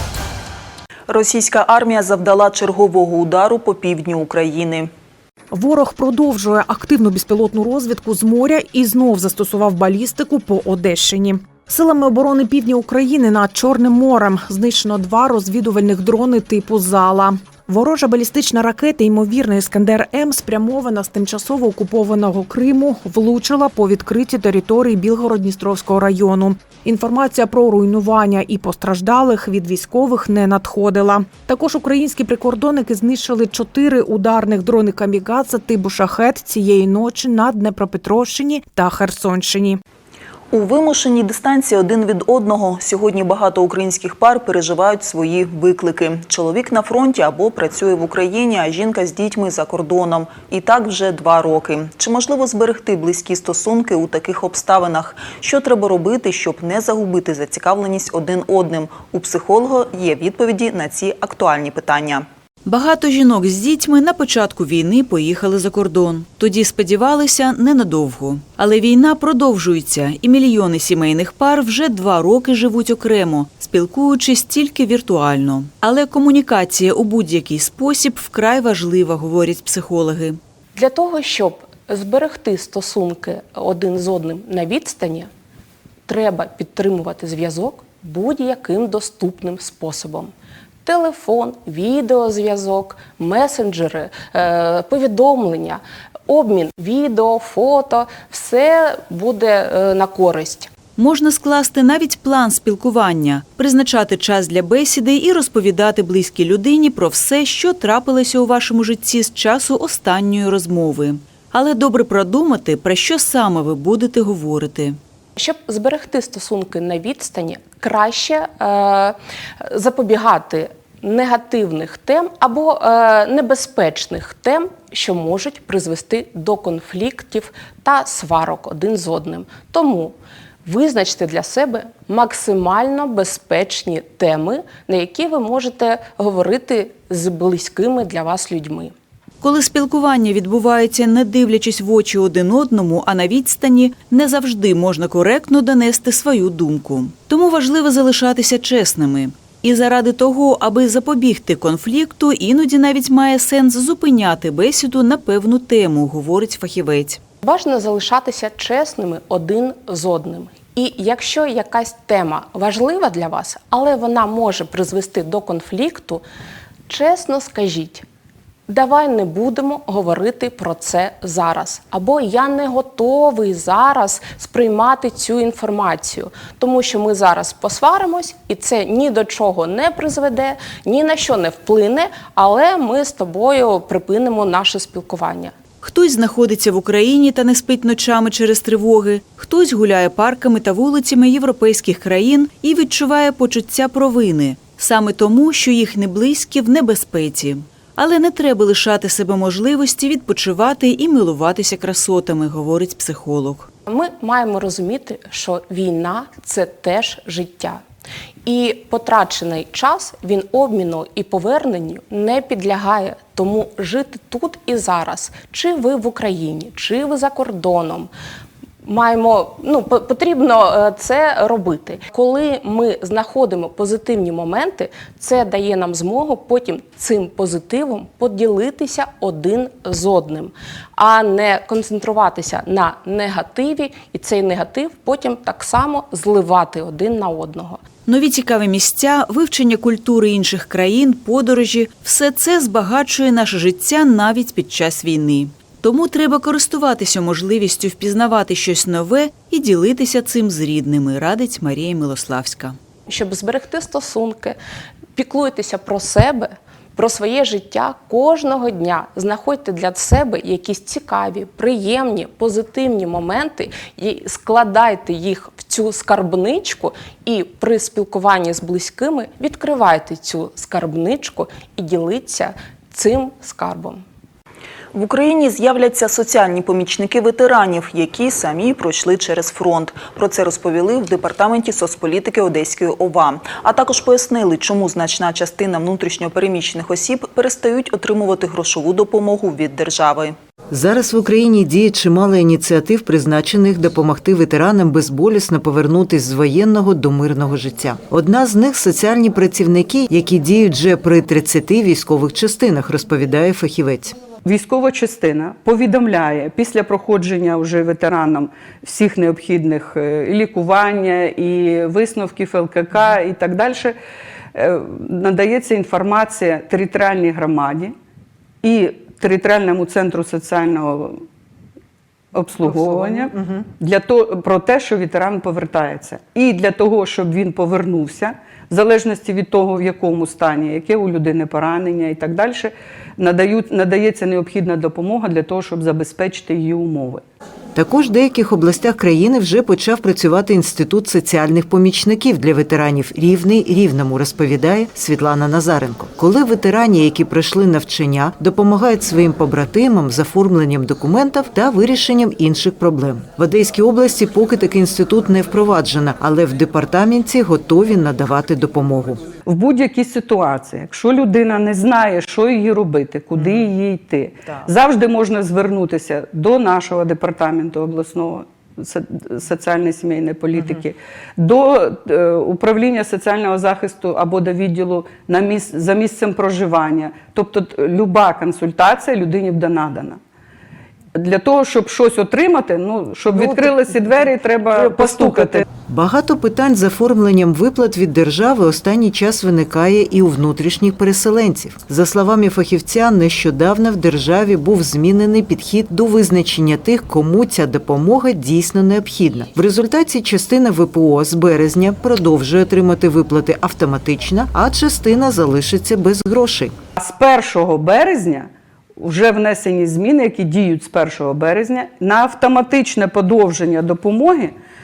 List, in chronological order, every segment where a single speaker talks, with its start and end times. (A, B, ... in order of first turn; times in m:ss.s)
0:01.1-0:04.9 A
0:05.5-0:39.8 B
0:40.5-1:02.3 A
1:02.6-1:20.4 C
1:20.8-1:25.3 D
1:26.1-1:30.3 D
1:30.8-1:40.7 D
1:41.0-1:55.0 C
1:55.4-2:18.9 D
2:19.4-2:37.2 C
2:37.4-2:46.2 D
2:46.9-2:48.0 D
2:48.7-3:05.5 D
3:05.8-3:23.7 C
3:23.9-3:27.8 D
3:28.5-3:38.1 D
3:38.8-3:57.8 D
3:58.1-4:12.8 C
4:13.1-4:14.6 D
4:15.2-4:34.0 D
4:34.9-4:50.4 A
4:50.7-5:04.2 E
5:04.4-5:14.0 F
5:14.6-5:17.9 F
5:18.6-5:21.2 F
5:22.3-5:37.2 F
5:22.8-5:23.2 E
5:37.8-5:59.2 E
5:59.5-6:20.2 F
6:03.4-6:03.7 E
6:21.2-6:25.6 F
6:25.1-6:25.4 B
6:25.9-6:46.7 E
6:47.0-6:54.6 F